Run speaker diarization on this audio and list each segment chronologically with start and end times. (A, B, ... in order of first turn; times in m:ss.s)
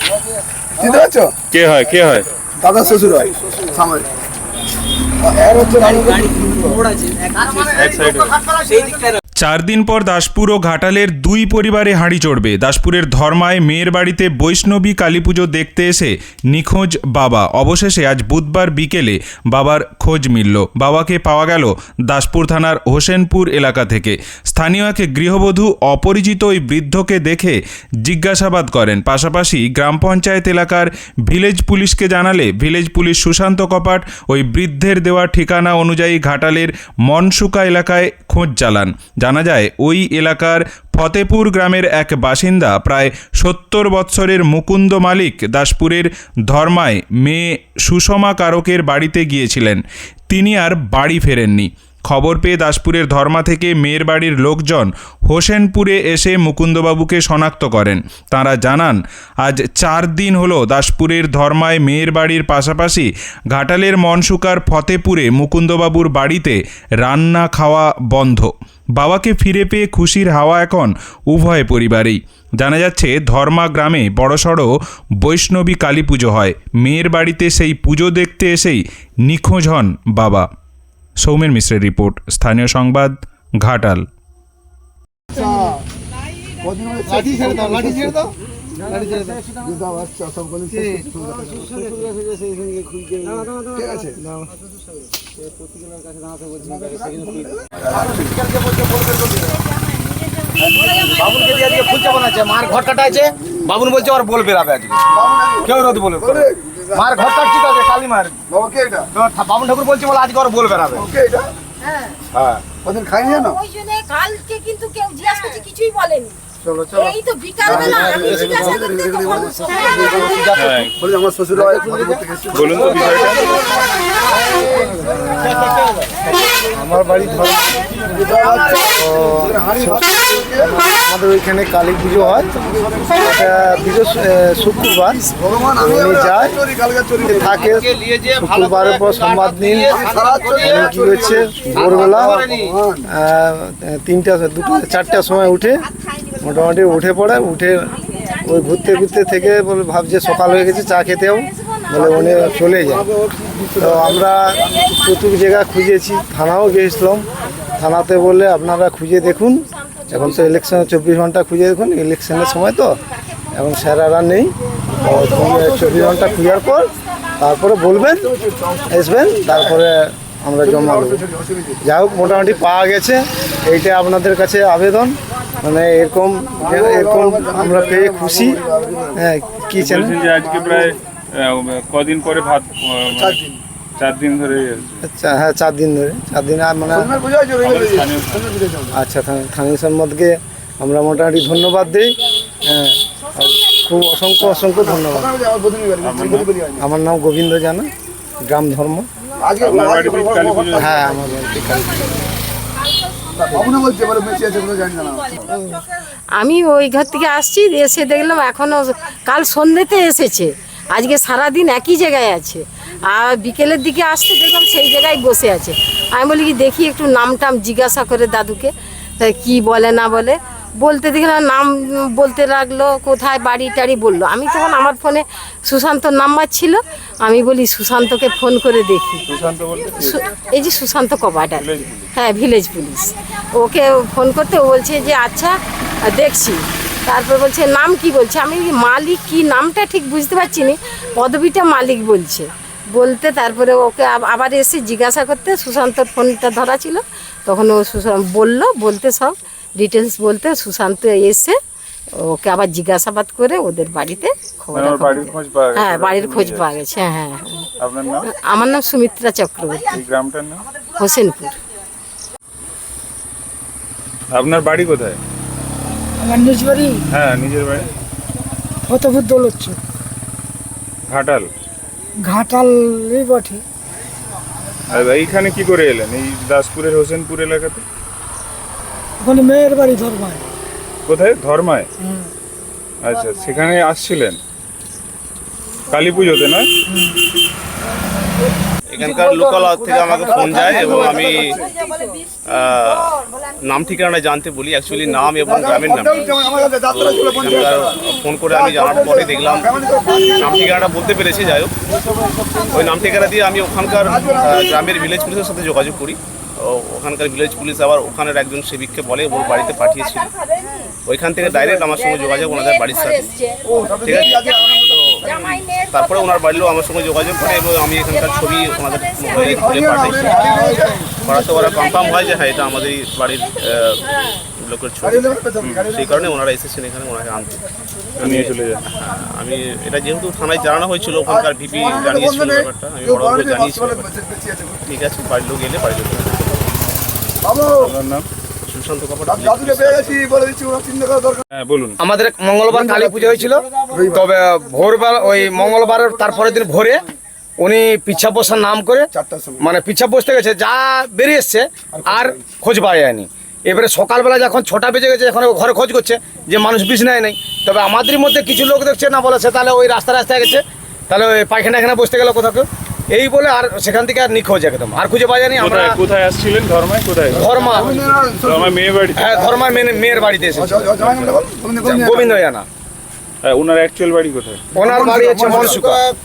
0:00.8-0:01.3 A
0:01.5-0:02.3 B
0:02.6-0:04.1 A
0:05.2-0:06.8 A
0:07.4-0:09.0 C
0:07.8-0:08.3 B
0:09.4-1:14.7 D
1:15.2-1:20.5 D
1:21.2-1:24.0 D
1:25.3-1:25.8 A
1:26.6-1:28.2 A
1:29.3-1:31.8 A
1:33.7-1:34.2 A
1:36.6-1:38.3 A
1:37.8-1:39.6 C
1:41.1-1:45.1 C
1:45.1-1:47.4 A
1:45.6-1:48.4 C
1:48.5-1:49.1 A
1:49.1-1:51.1 C
1:50.9-1:51.5 A
1:52.3-1:52.6 C
1:52.7-1:53.6 A
1:53.2-1:56.4 E
1:56.6-1:57.2 F
1:57.0-1:58.7 E
1:57.6-2:00.4 A
1:57.7-1:58.7 F
1:59.4-1:59.8 E
2:00.6-2:00.9 B
2:01.0-2:03.6 A
2:02.5-2:03.6 B
2:04.7-2:06.0 F
2:06.6-2:08.2 F
2:08.1-2:10.7 A
2:08.4-2:08.9 C
2:08.9-2:10.1 F
2:10.6-2:12.5 F
2:12.2-2:13.4 A
2:13.2-2:16.6 F
2:15.4-2:17.8 A
2:17.2-2:20.0 F
2:17.8-2:20.8 C
2:19.9-2:23.1 A
2:20.5-2:22.5 F
2:21.7-2:22.6 C
2:23.1-2:25.9 F
2:26.4-2:33.1 F
2:32.0-2:35.0 A
2:33.8-2:43.0 F
2:43.5-2:48.3 F
2:44.9-2:46.5 A
2:48.1-2:49.8 A
2:48.9-2:51.2 F
2:50.6-2:51.8 A
2:51.8-2:58.6 F
2:56.6-2:59.2 A
2:59.2-3:00.2 F
2:59.7-3:03.4 B
3:00.4-3:00.9 A
3:03.1-3:03.6 A
3:04.0-3:05.0 B
3:05.0-3:07.1 F
3:06.9-3:09.0 A
3:07.6-3:08.5 B
3:08.9-3:15.3 F
3:14.8-3:16.9 A
3:16.0-3:16.5 B
3:16.8-3:19.1 F
3:19.4-3:21.2 A
3:19.6-3:21.0 B
3:20.8-3:22.3 F
3:23.4-3:25.5 A
3:25.5-3:25.9 E
3:26.4-3:49.3 E
3:49.3-3:50.2 B
3:49.9-4:11.6 E
3:51.6-3:52.0 B
4:12.2-4:17.7 E
4:14.8-4:16.7 B
4:17.8-4:18.3 B
4:18.2-4:19.9 E
4:19.9-4:20.6 B
4:21.0-4:21.6 E
4:24.3-4:25.2 B
4:24.5-4:25.2 D
4:26.2-4:27.0 G
4:27.2-4:27.9 B
4:28.9-4:29.8 G
4:31.1-4:31.5 D
4:31.1-4:31.4 B
4:32.2-4:33.6 G
4:34.9-4:37.8 B
4:36.6-4:36.8 D
4:39.2-4:40.5 G
4:41.1-4:41.9 B
4:42.0-4:42.3 G
4:43.0-4:44.4 B
4:45.9-4:46.7 B
4:46.9-4:47.2 G
4:48.9-4:51.6 H
4:49.0-4:51.7 A
4:52.5-4:59.7 H
4:55.4-5:00.8 A
5:00.4-5:01.8 H
5:02.7-5:10.3 H
5:04.1-5:04.8 A
5:11.1-5:13.3 H
5:13.4-5:13.6 E
5:13.6-5:15.5 A
5:14.0-5:20.5 H
5:19.3-5:21.9 A
5:21.2-5:25.4 H
5:25.0-5:26.4 A
5:25.9-5:34.1 H
5:28.2-5:28.9 B
5:31.3-5:34.9 A
5:34.9-5:36.9 H
5:37.4-5:38.0 A
5:37.8-5:38.3 B
5:38.7-5:40.2 H
5:39.3-5:41.4 A
5:41.5-5:42.0 B
5:42.0-5:47.0 C
5:42.7-5:44.3 A
5:47.6-5:49.1 C
5:49.1-5:49.7 A
5:49.6-6:06.0 C
5:51.9-5:52.6 A
6:05.6-6:07.5 B
6:07.3-6:07.9 C
6:07.4-6:08.8 A
6:08.4-6:09.4 B
6:09.2-6:11.1 C
6:09.3-6:09.6 A
6:10.2-6:12.5 A
6:11.0-6:11.4 B
6:11.8-6:12.7 C
6:13.4-6:14.6 B
6:14.8-6:15.9 A
6:14.8-6:16.0 C